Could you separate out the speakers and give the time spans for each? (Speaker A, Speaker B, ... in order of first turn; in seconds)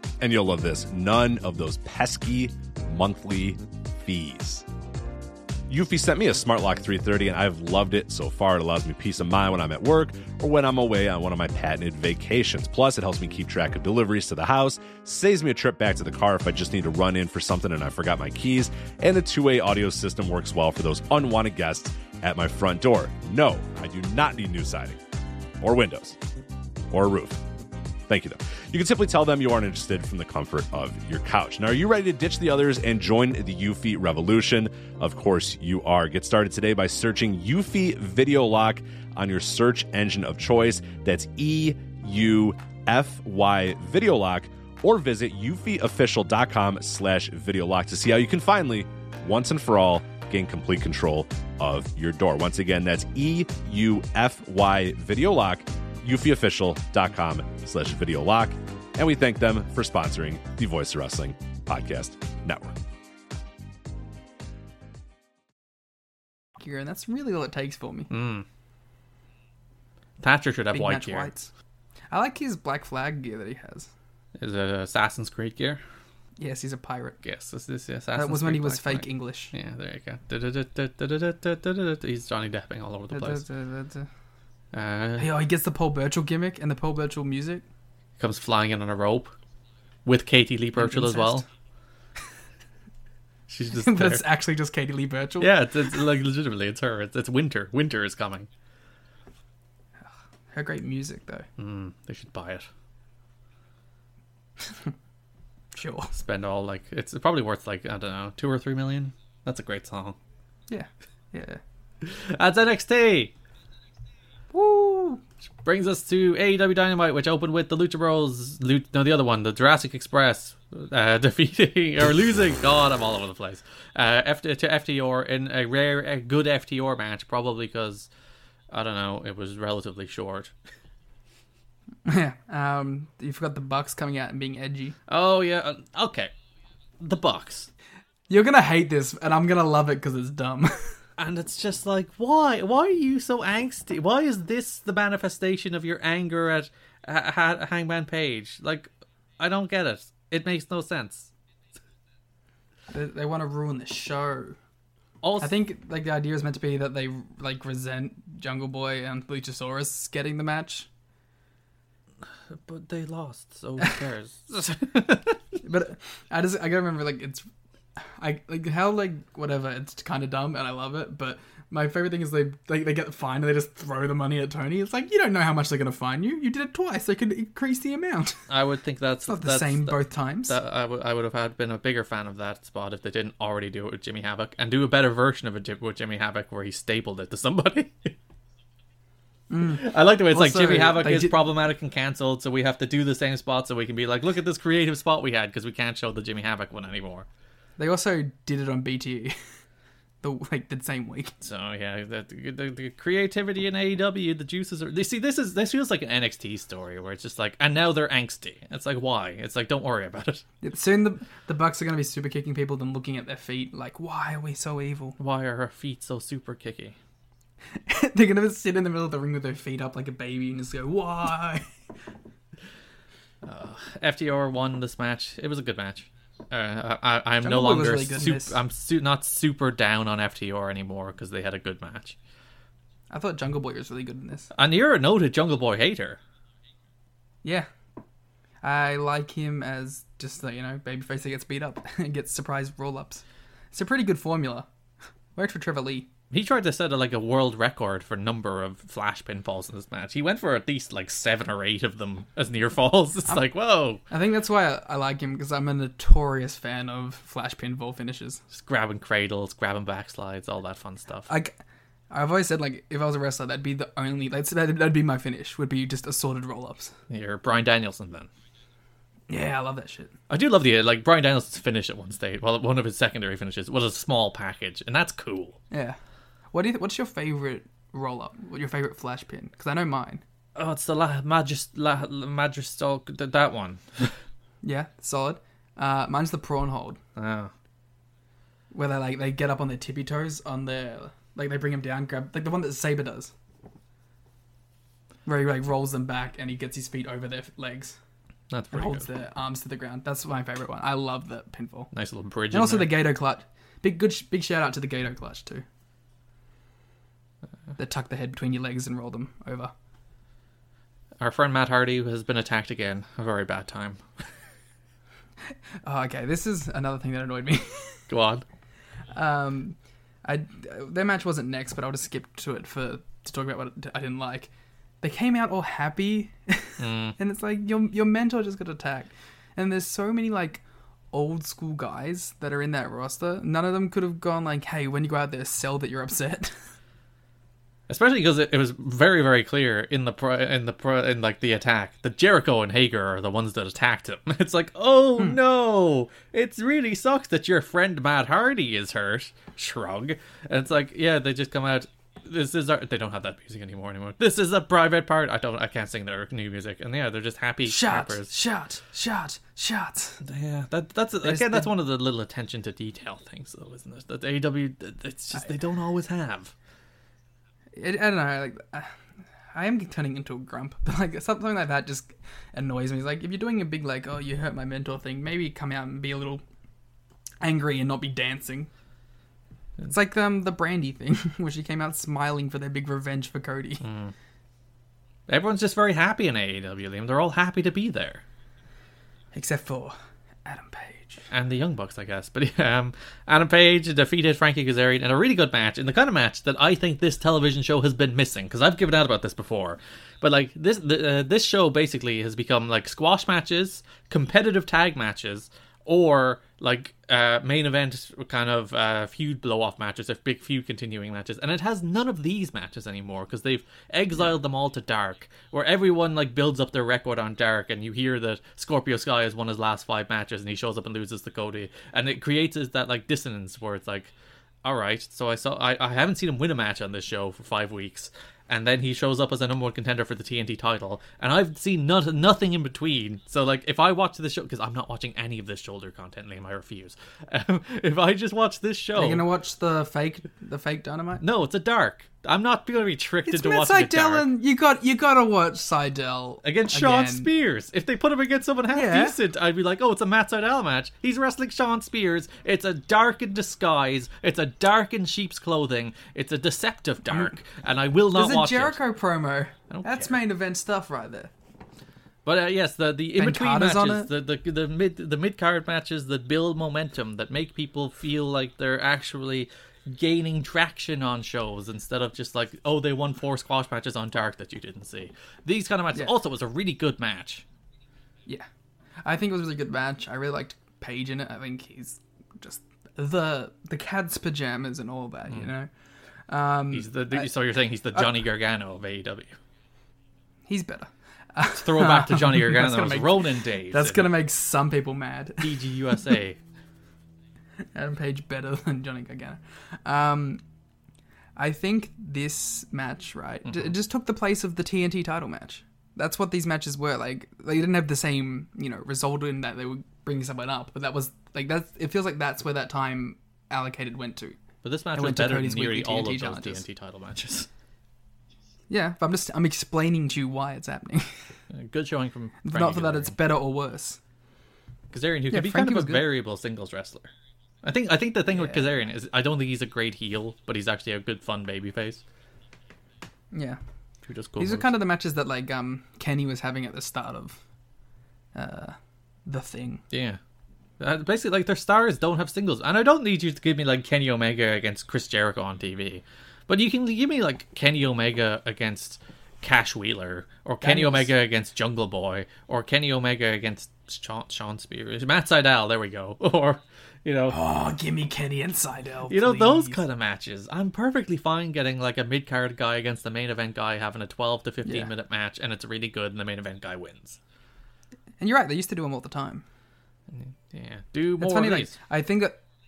Speaker A: 0.2-4.6, 5.7-25.0, 25.6-26.2, 26.9-27.4, 28.1-62.7
Speaker B: 66.6-68.1, 70.7-71.5, 72.1-73.9, 76.4-77.2, 78.1-79.5, 83.1-84.1, 85.2-87.6, 90.8-91.4, 93.7-95.6, 100.5-101.5, 104.7-104.9, 105.7-106.1, 110.7-111.6, 114.5-115.2, 132.1-134.9, 138.3-140.9, 152.9-154.6, 155.4-160.9, 165.6-167.4, 168.0-178.4, 179.3-180.6, 189.5-191.3, 197.8-199.3, 200.2-201.3, 210.6-215.2, 217.8-221.6, 227.4-228.6, 233.1-234.5, 238.6-244.7, 245.3-246.1, 254.1-258.4, 261.3-261.6, 262.1-266.9, 269.3-270.1, 275.7-276.0, 276.5-280.2, 284.6-287.0, 288.7-293.3, 295.2-298.0, 298.7-301.9, 302.5-305.6, 307.8-309.7, 315.8-318.0, 319.1-336.5, 357.6-360.2, 361.2-361.7, 367.8-368.9, 369.5-376.4, 377.4-378.7, 379.8-383.9, 389.3-391.2, 438.9-441.2, 443.2-447.3, 448.7-449.2, 457.1-457.3, 458.1-461.3, 463.2-464.1, 479.0-485.7, 486.3-487.3, 490.5-495.6, 497.7-500.4, 501.4-514.4, 514.9-516.6, 518.7-521.1, 522.4-524.0, 525.3-526.0, 528.3-528.7, 533.3-533.6, 534.4-537.4, 538.3-539.8, 550.6-551.1, 557.3-559.8, 564.6-564.9, 568.2-569.4, 571.2-572.4
Speaker C: 68.1-68.5, 70.2-71.3, 74.4-75.8, 77.2-83.4, 84.7-85.3, 88.2-89.3, 90.0-91.4, 93.5-94.2, 95.4-98.5, 101.6-102.7, 106.1-110.2, 112.0-113.3, 115.6-128.1, 128.7-130.5, 135.1-136.3, 137.0-137.7, 141.2-151.3, 155.2-155.5, 162.5-165.4, 178.5-188.1, 189.7-197.2, 201.4-210.4, 215.2-217.0, 223.4-232.2, 234.5-236.2, 246.3-254.0, 258.5-261.3, 267.1-268.3, 270.3-275.6, 280.6-284.2, 287.1-287.5, 298.5-299.1, 301.9-303.0, 311.2-314.0, 318.1-318.4, 326.8-327.1, 337.9-358.3, 360.2-366.5, 383.8-384.1, 385.3-388.2, 391.3-424.1, 424.6-439.2, 441.2-444.2, 446.4-458.8, 459.7-460.2, 462.2-477.4, 486.7-489.4, 491.6-494.1, 495.4-496.4, 514.6-517.5, 521.5-523.1, 524.9-527.1, 527.6-532.0, 534.0-534.7, 539.9-540.2, 540.8-557.3, 559.1-567.2, 570.1-571.7